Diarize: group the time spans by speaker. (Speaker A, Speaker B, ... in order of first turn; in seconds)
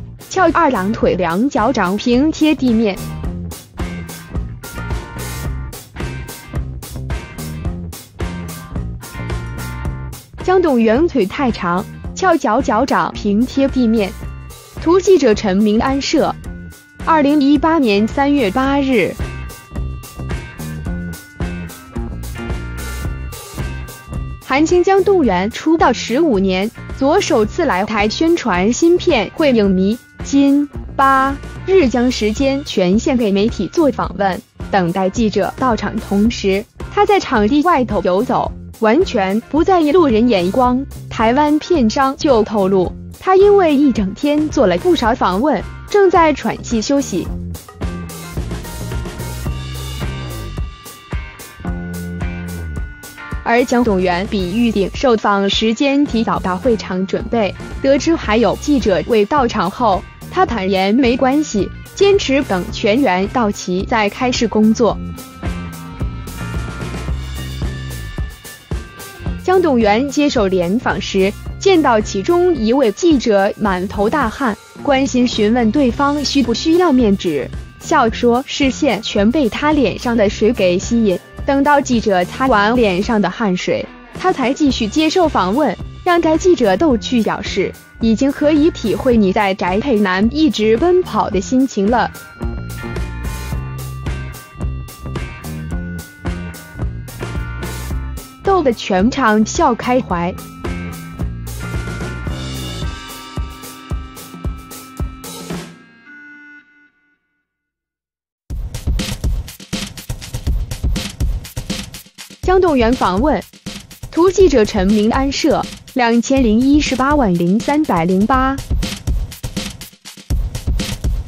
Speaker A: 0.3-3.0, 10.4-14.2, 14.8-16.4, 17.1-19.2, 24.4-47.3, 53.4-65.0, 69.4-92.1, 98.4-100.4, 112.4-113.5, 114.1-118.6